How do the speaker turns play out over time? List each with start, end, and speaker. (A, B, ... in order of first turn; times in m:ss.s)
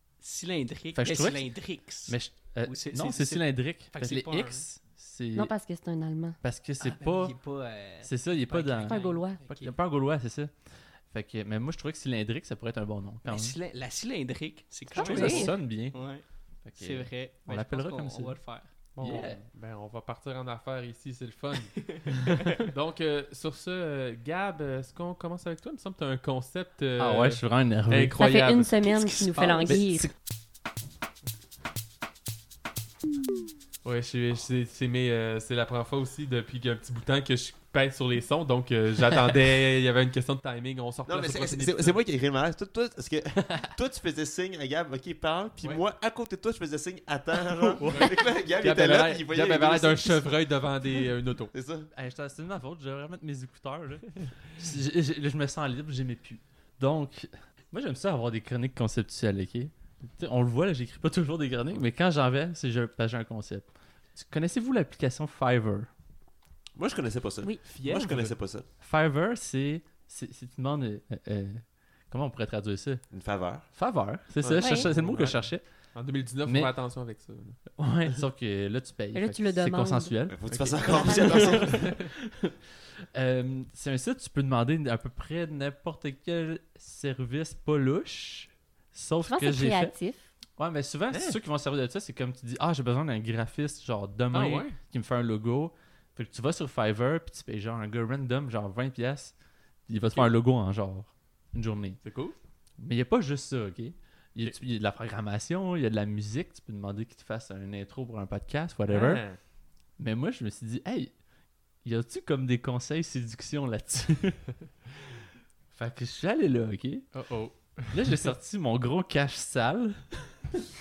0:00.2-0:04.6 A
0:00.9-0:05.5 B
0:05.3-0:06.4 C
0:06.4-0:07.4 B
0:06.8-0:09.7 A
0:08.0-0:10.5 B
0:08.8-0:09.4 C
0:11.1-0:13.6 B
0:13.2-0:16.2 A
0:14.9-0:15.5 C
0:15.0-0:16.0 B
0:16.7-0:18.4 B
0:16.7-0:18.7 A
0:18.9-0:21.8 D
0:19.0-0:19.4 B
0:21.8-0:22.6 A
0:22.4-0:28.7 D
0:27.0-0:28.6 B
0:28.2-0:30.1 C
0:28.8-0:29.8 A
0:29.7-0:30.1 B
0:33.8-0:42.0 D
0:41.1-0:50.4 E
0:43.5-0:43.7 B
0:47.8-0:51.5 D
0:51.5-0:51.9 E
0:51.9-1:05.9 B
1:06.8-1:08.6 E
1:07.6-1:08.4 D
1:08.8-1:13.0 B
1:13.1-1:13.7 E
1:13.7-1:15.6 B
1:14.4-1:14.8 E
1:14.5-1:17.6 D
1:14.6-1:14.9 C
1:16.4-1:16.7 B
1:17.7-1:20.4 B
1:19.1-1:20.1 C
1:20.3-1:21.9 E
1:20.5-1:22.1 D
1:20.9-1:21.4 C
1:21.4-1:22.6 B
1:23.1-1:29.9 B
1:29.3-1:30.2 C
1:30.6-1:39.3 B
1:31.1-1:31.4 D
1:34.3-1:34.8 D
1:39.9-1:42.0 B
1:42.0-1:42.4 D
1:42.8-1:49.2 B
1:48.9-1:49.4 D
1:50.0-1:51.1 B
1:51.8-1:54.4 B
1:55.7-1:57.1 B
1:57.1-1:58.2 D
1:57.9-2:00.4 B